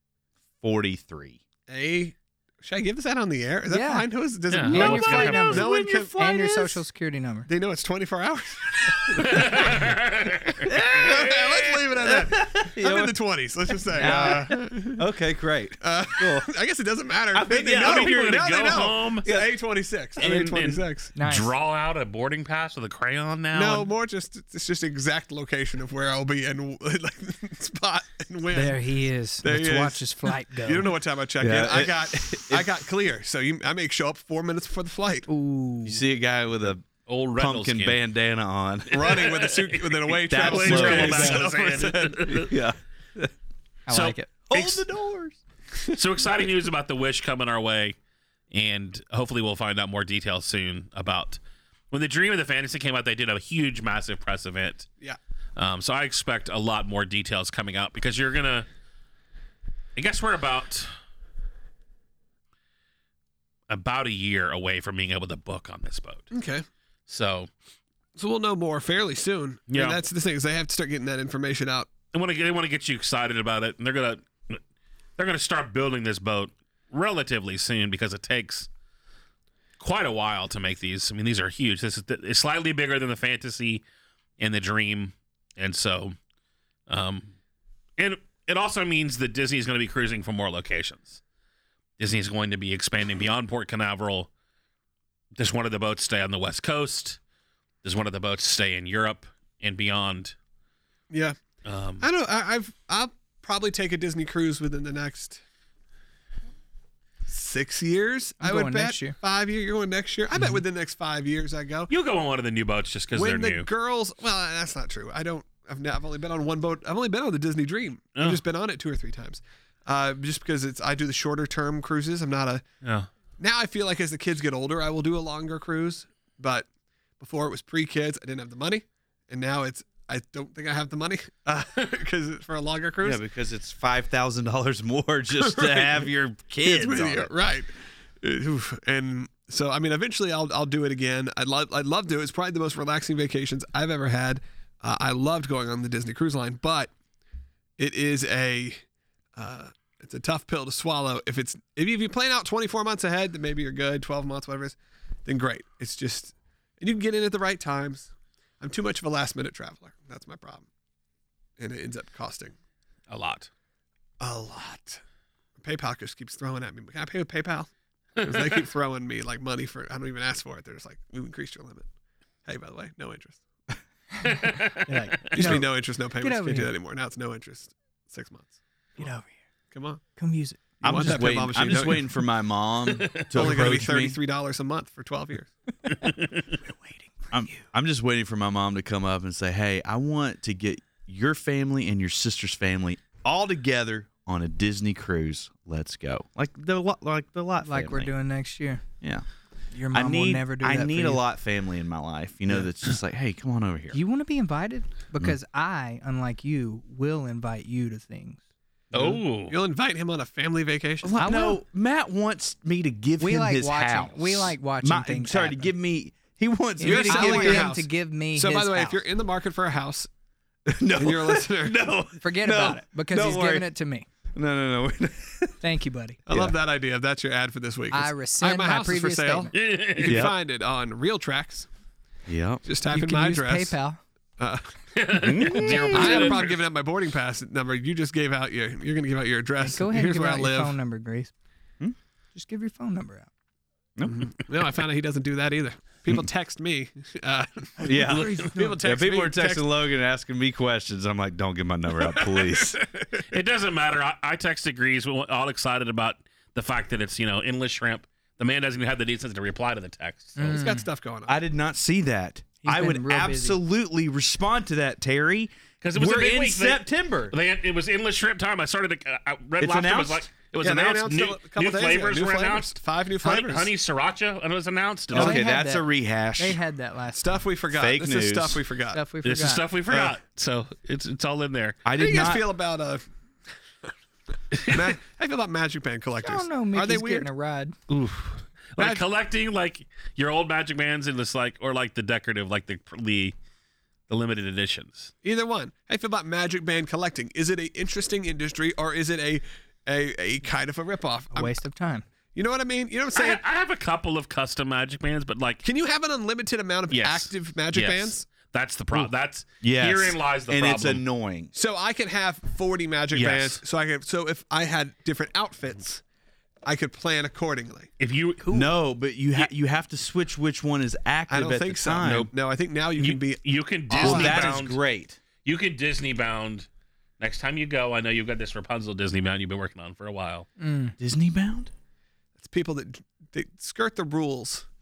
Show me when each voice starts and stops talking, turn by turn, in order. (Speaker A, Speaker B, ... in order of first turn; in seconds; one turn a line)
Speaker A: 0.6-1.4
Speaker B: 1.7-6.7
Speaker C: 3.7-4.1
Speaker D: 4.5-5.7
Speaker C: 4.7-7.5
Speaker A: 5.6-6.7
Speaker B: 7.5-9.7
Speaker D: 9.2-10.8
Speaker A: 10.6-11.5
Speaker B: 10.9-15.0
Speaker A: 12.0-13.1
Speaker A: 13.9-16.5
Speaker C: 13.9-14.5
Speaker B: 15.8-21.1
Speaker A: 17.3-18.5
Speaker D: 17.8-19.4
Speaker D: 20.2-23.9
Speaker C: 21.1-21.5
Speaker B: 23.5-28.8
Speaker C: 28.5-30.9
Speaker B: 29.4-35.3
Speaker A: 31.4-32.8
Speaker C: 35.3-36.0
Speaker A: 35.8-39.2
Speaker D: 37.0-38.0
Speaker B: 38.9-42.5
Speaker D: 38.9-42.5
Speaker A: 40.2-41.5
Speaker A: 42.3-43.3
Speaker C: 43.9-44.3
Speaker D: 43.9-44.8
Speaker A: 44.5-45.4
Speaker D: 45.9-48.0
Speaker D: 48.5-51.4
Speaker D: 51.9-54.9
Speaker D: 55.5-58.6
Speaker D: 60.0-60.9
Speaker D: 63.7-66.3
Speaker B: 66.3-66.6
Speaker D: 67.1-67.5
Speaker B: 68.2-71.9
Speaker D: 69.7-70.0
Speaker D: 72.1-74.6
Speaker D: 75.2-78.7
Speaker D: 79.8-83.8
Speaker D: 84.4-86.2
Speaker D: 86.9-87.3
Speaker D: 88.0-91.2
Speaker D: 92.0-94.3
Speaker D: 95.3-97.2
Speaker D: 97.8-100.3
Speaker B: 101.1-101.4
Speaker D: 101.6-102.1
Speaker B: 102.0-105.4
Speaker B: 107.3-111.9
Speaker C: 108.4-109.2
Speaker D: 111.9-113.7
Speaker B: 113.1-122.6
Speaker D: 122.8-123.1
Speaker B: 123.4-126.7
Speaker B: 127.2-133.2
Speaker A: 133.0-137.3
Speaker B: 135.3-136.0
Speaker B: 136.6-146.9
Speaker B: 147.8-148.8
Speaker B: 149.3-160.7
Speaker B: 161.6-162.5
Speaker D: 163.1-163.5
Speaker B: 164.2-165.0
Speaker B: 165.6-167.7
Speaker D: 168.2-168.6
Speaker B: 168.2-171.9
Speaker B: 172.4-173.4
Speaker D: 174.2-175.6
Speaker C: 174.8-175.7
Speaker B: 175.3-179.1
Speaker C: 176.2-176.7
Speaker C: 179.0-179.3
Speaker B: 179.7-180.0
Speaker C: 180.2-181.2
Speaker B: 180.8-182.1
Speaker A: 180.8-184.2
Speaker D: 182.9-183.2
Speaker B: 183.3-185.5
Speaker D: 185.9-186.4
Speaker C: 186.6-187.6
Speaker A: 187.3-198.1
Speaker C: 197.6-198.8
Speaker C: 199.7-201.2
Speaker A: 199.9-204.0
Speaker C: 203.9-208.4
Speaker D: 208.9-209.5
Speaker B: 209.4-211.1
Speaker A: 211.0-217.7
Speaker C: 211.2-211.6
Speaker C: 213.2-215.7
Speaker C: 216.8-219.0
Speaker B: 216.8-220.1
Speaker A: 220.7-223.7
Speaker B: 220.9-221.9
Speaker C: 222.2-224.1
Speaker A: 224.3-225.6
Speaker C: 225.6-226.2
Speaker B: 226.2-231.7
Speaker A: 226.3-226.5
Speaker C: 227.9-229.5
Speaker D: 229.5-230.3
Speaker A: 230.0-230.3
Speaker A: 232.3-232.6
Speaker B: 232.6-233.8
Speaker C: 232.9-234.0
Speaker B: 234.4-234.7
Speaker D: 234.9-236.6
Speaker A: 235.2-236.3
Speaker C: 235.6-236.4
Speaker B: 235.9-240.8
Speaker C: 239.6-241.3
Speaker C: 242.3-243.3
Speaker A: 244.0-244.3
Speaker B: 244.1-249.7
Speaker C: 247.8-248.8
Speaker A: 247.8-252.8
Speaker B: 252.0-253.3
Speaker D: 253.3-260.6
Speaker C: 260.4-260.9
Speaker B: 260.4-261.4
Speaker A: 261.3-267.3
Speaker C: 262.6-263.6
Speaker D: 265.8-275.4
Speaker A: 269.6-270.3
Speaker B: 270.6-273.7
Speaker A: 275.1-276.6
Speaker C: 275.1-275.9
Speaker C: 276.4-277.4
Speaker B: 277.1-279.0
Speaker A: 277.7-278.6
Speaker C: 278.9-279.7
Speaker D: 279.2-281.8
Speaker A: 281.8-282.4
Speaker B: 281.9-283.1
Speaker D: 284.5-284.9
Speaker B: 284.6-287.3
Speaker C: 286.2-287.7
Speaker D: 287.9-293.3
Speaker B: 288.8-289.0
Speaker D: 294.1-295.1
Speaker B: 295.2-301.5
Speaker C: 301.3-302.0
Speaker B: 302.3-303.4
Speaker D: 303.1-305.6
Speaker B: 305.6-308.2
Speaker D: 306.9-311.0
Speaker A: 308.9-311.5
Speaker B: 311.5-316.0
Speaker D: 313.1-313.6
Speaker B: 316.6-317.9
Speaker D: 318.0-318.5
Speaker C: 318.4-318.7
Speaker A: 318.5-322.3
Speaker B: 321.3-324.5
Speaker D: 323.0-324.8
Speaker A: 323.9-325.2
Speaker D: 325.4-326.7
Speaker D: 327.2-330.5
Speaker C: 330.6-330.9
Speaker A: 331.0-331.7
Speaker B: 332.4-334.7